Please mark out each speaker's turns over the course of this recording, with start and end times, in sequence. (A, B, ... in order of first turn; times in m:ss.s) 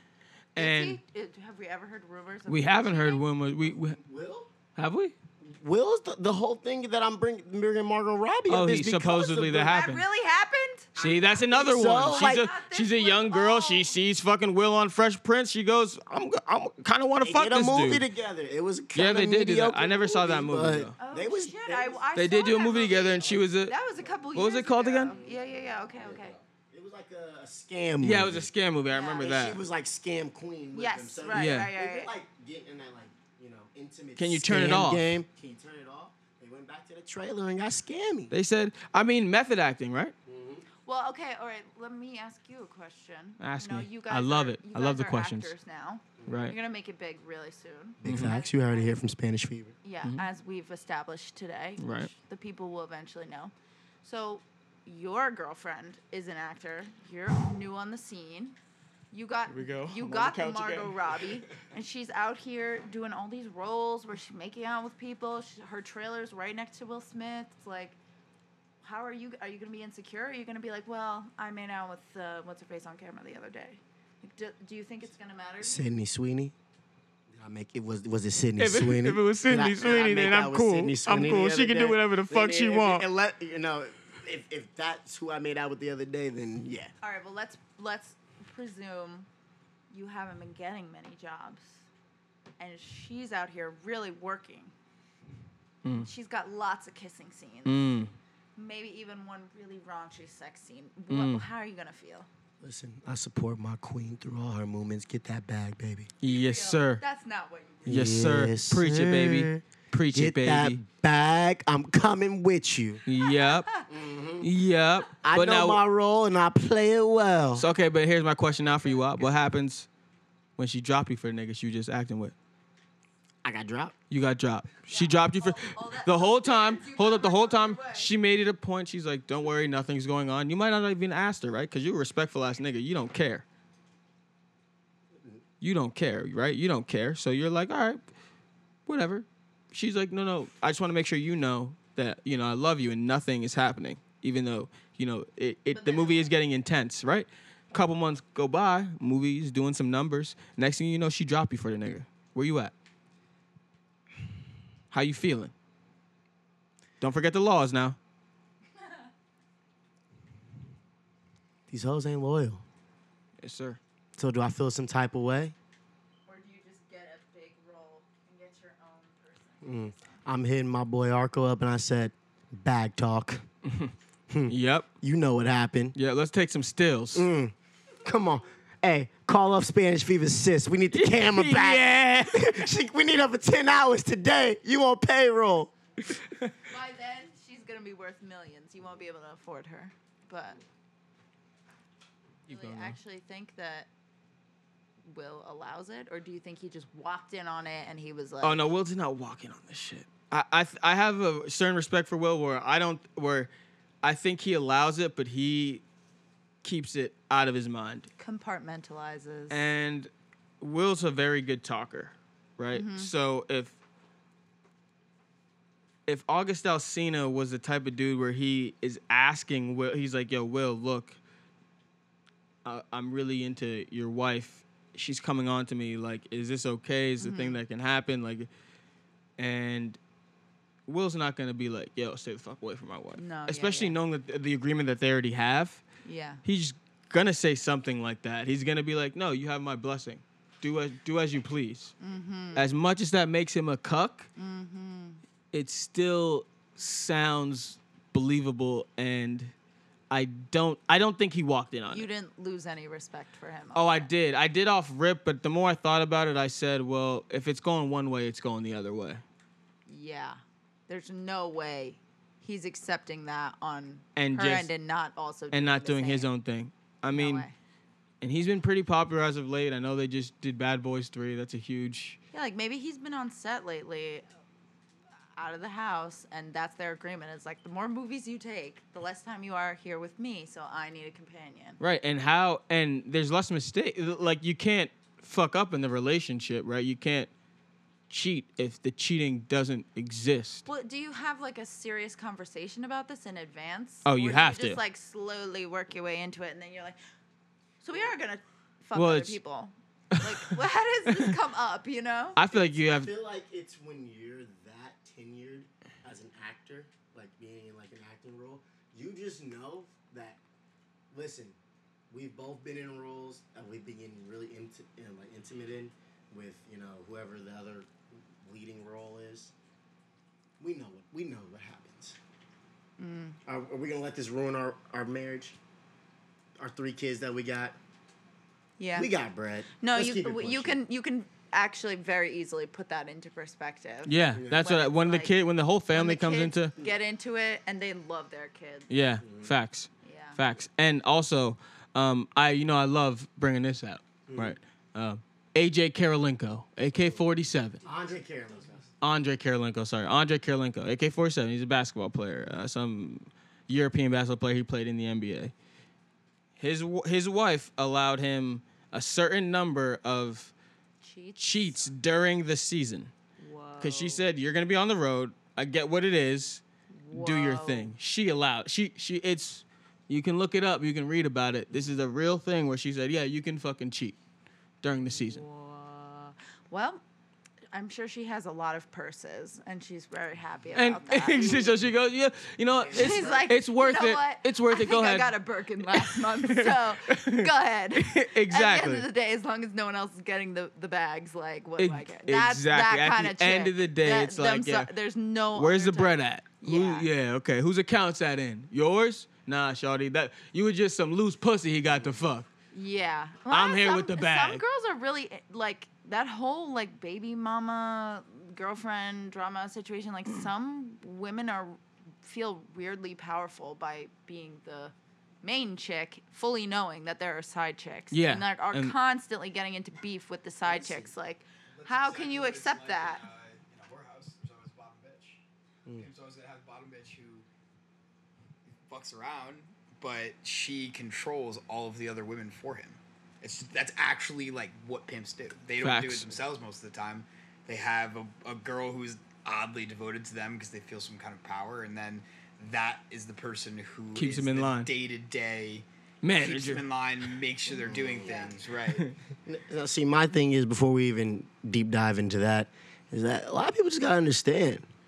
0:00.6-0:01.0 A
0:00.6-0:03.2 B
0:02.5-0:04.0 A
0:03.7-0:04.5 C
0:04.8-0:05.1 A
0:05.4-0:09.8 C
0:08.5-0:10.0 A
0:09.6-0:10.9 B
0:11.0-0:12.5 C
0:11.0-0:18.1 A
0:12.1-0:13.9 B
0:17.2-0:22.1 C
0:19.0-0:21.0 A
0:21.0-0:26.4 B
0:22.2-0:23.8 A
0:24.3-0:25.2 A
0:25.1-0:28.5 C
0:28.0-0:29.6 A
0:28.9-0:29.4 B
0:29.2-0:38.3 C
0:30.7-0:32.1 B
0:31.3-0:31.7 A
0:34.2-0:35.2 A
0:38.3-0:40.2 A
0:40.3-0:40.6 C
0:40.8-0:49.0 B
0:43.4-0:45.5 A
0:46.3-0:46.6 A
0:48.0-0:49.8 C
0:48.0-0:48.3 A
0:49.8-0:58.6 B
0:51.8-0:52.1 A
0:59.1-1:08.0 B
0:59.5-1:01.3 A
1:08.8-1:15.8 B
1:15.6-1:16.5 C
1:17.3-1:26.9 C
1:18.6-1:23.1 A
1:27.0-1:29.3 B
1:29.9-1:31.8 B
1:32.6-1:34.7 B
1:36.0-1:37.9 B
1:37.7-1:38.1 A
1:38.6-1:42.3 B
1:41.1-1:41.4 A
1:42.6-1:46.1 C
1:46.2-1:47.0 A
1:46.2-1:47.9 B
1:47.8-1:53.0 C
1:47.9-1:50.8 A
1:53.1-1:53.7 A
1:53.2-1:53.9 B
1:53.9-1:54.5 C
1:54.4-1:55.8 A
1:55.2-1:57.7 C
1:57.6-1:59.9 A
1:58.5-1:59.3 B
2:00.6-2:02.3 A
2:03.4-2:04.0 C
2:04.1-2:13.4 A
2:04.9-2:08.1 B
2:15.6-2:18.0 A
2:18.9-2:32.7 A
2:25.7-2:26.3 B
2:34.9-2:35.5 A
2:37.0-2:38.0 A
2:38.8-2:39.1 B
2:41.7-2:42.6 C
2:43.4-2:43.8 A
2:44.2-2:45.6 C
2:46.3-2:50.2 B
2:49.6-2:53.4 C
2:53.6-2:54.0 A
2:54.3-2:56.0 C
2:54.5-2:54.9 A
2:56.0-2:57.3 A
2:57.1-3:05.7 C
3:00.9-3:02.7 A
3:06.7-3:10.6 B
3:12.5-3:13.0 A
3:12.5-3:13.9 B
3:15.0-3:18.6 B
3:18.4-3:23.5 A
3:24.0-3:25.8 A
3:26.6-3:28.1 A
3:28.2-3:29.7 B
3:29.5-3:30.1 A
3:30.6-3:33.8 A
3:32.7-3:33.1 B
3:36.1-3:41.2 A
3:42.6-3:48.5 A
3:47.2-3:47.6 B
3:49.4-3:50.0 A
3:50.9-3:55.8 A
3:53.2-3:54.0 B
3:56.0-3:56.4 B
3:56.4-4:01.9 A
4:02.0-4:02.6 B
4:02.6-4:04.3 A
4:04.4-4:05.2 B
4:05.5-4:09.5 A
4:10.1-4:12.1 A
4:11.9-4:14.1 B
4:13.8-4:19.2 A
4:19.9-4:26.3 B
4:24.2-4:24.7 A
4:25.5-4:27.5 A
4:27.1-4:27.5 B
4:28.2-4:32.2 A
4:32.3-4:34.3 B
4:35.4-4:41.8 B
4:41.8-4:47.3 A
4:48.1-4:50.7 A
4:50.7-4:57.0 B
4:54.0-4:54.8 A
4:57.8-5:02.5 B
4:59.0-4:59.4 A
5:00.1-5:01.3 A
5:02.4-5:03.1 A
5:02.8-5:10.4 C
5:11.1-5:11.6 C
5:12.1-5:19.5 C
5:20.6-5:22.2 C
5:23.0-5:23.4 B
5:23.5-5:25.6 C
5:26.6-5:27.8 C
5:28.8-5:29.1 B
5:29.0-5:30.8 C
5:29.8-5:35.3 B
5:34.1-5:36.7 A
5:34.4-5:34.6 C
5:35.9-5:38.9 B
5:38.9-5:47.8 A
5:39.2-5:39.5 C
5:40.0-5:40.4 B
5:44.3-5:44.6 C
5:47.8-5:48.9 C
5:49.0-5:55.5 A
5:56.6-6:00.5 A
6:01.0-6:01.9 B
6:01.4-6:03.1 A
6:03.4-6:04.2 B
6:03.8-6:14.2 A
6:06.9-6:07.9 B
6:14.8-6:15.4 A
6:15.0-6:17.0 B
6:17.7-6:21.8 B
6:20.8-6:29.1 A
6:22.8-6:23.5 C
6:22.9-6:37.1 B
6:31.8-6:34.9 A
6:35.5-6:42.5 A
6:42.7-7:03.2 B
6:43.5-6:44.6 A
6:58.1-6:59.0 A
7:00.6-7:01.1 C
7:01.7-7:05.4 D
7:06.0-7:07.5 D
7:08.6-7:29.1 D
7:15.8-7:16.4 A
7:24.2-7:24.9 A
7:26.2-7:26.8 A
7:27.7-7:28.6 B
7:27.8-7:28.6 C
7:28.9-7:29.2 A
7:29.5-7:34.9 C